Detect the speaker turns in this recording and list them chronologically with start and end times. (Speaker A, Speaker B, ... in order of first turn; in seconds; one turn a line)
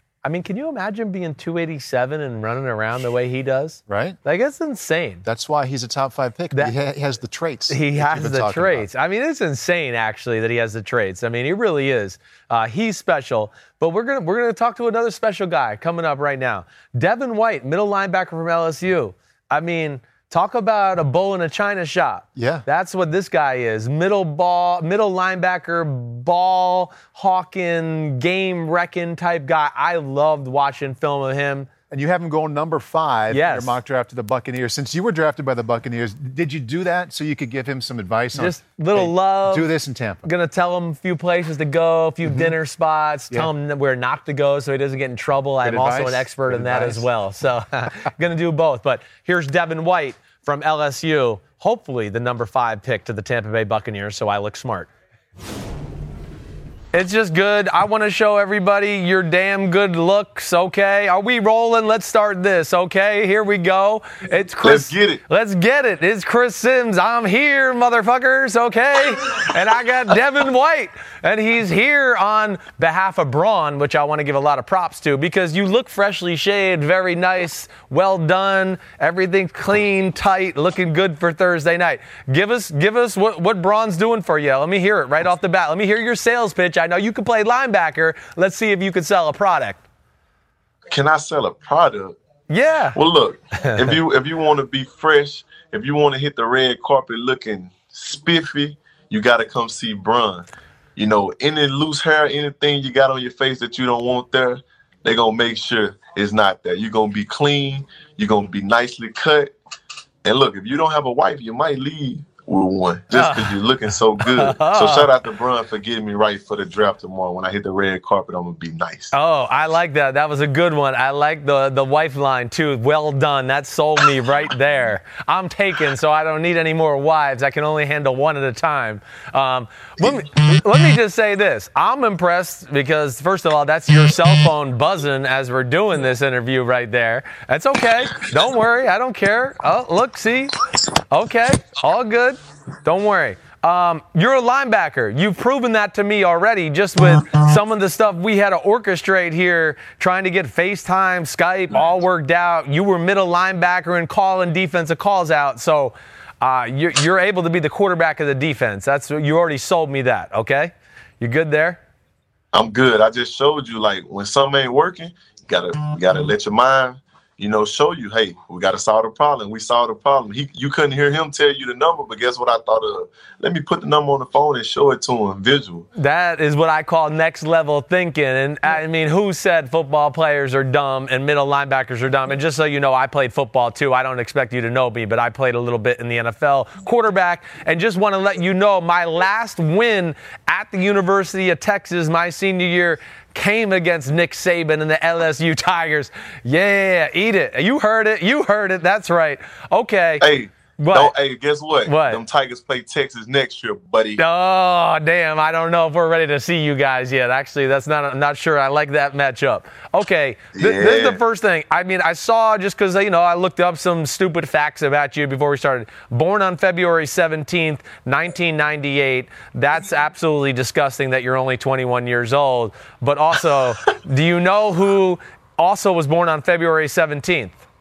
Speaker A: 0.2-5.2
Speaker B: 3.9-4.2
Speaker B: 5.2-8.9
Speaker A: 7.7-31.7
Speaker B: 22.4-22.6
Speaker B: 31.9-40.2
Speaker A: 33.3-33.8
Speaker A: 38.3-39.7
Speaker A: 40.2-54.9
Speaker B: 42.2-42.5
Speaker B: 45.6-47.1
Speaker A: 56.9-89.8
Speaker C: 64.6-65.2
Speaker C: 90.9-92.2
Speaker A: 92.5-93.0
Speaker C: 92.9-109.5
Speaker A: 93.6-94.0
Speaker C: 110.2-119.1
Speaker A: 113.1-113.6
Speaker A: 114.2-115.1
Speaker A: 119.1-140.6
Speaker A: 141.1-161.8
Speaker C: 162.5-175.9
Speaker A: 175.9-200.2
Speaker C: 200.2-204.2
Speaker A: 200.8-201.1
Speaker A: 201.8-202.2
Speaker A: 204.2-227.6
Speaker C: 210.5-211.2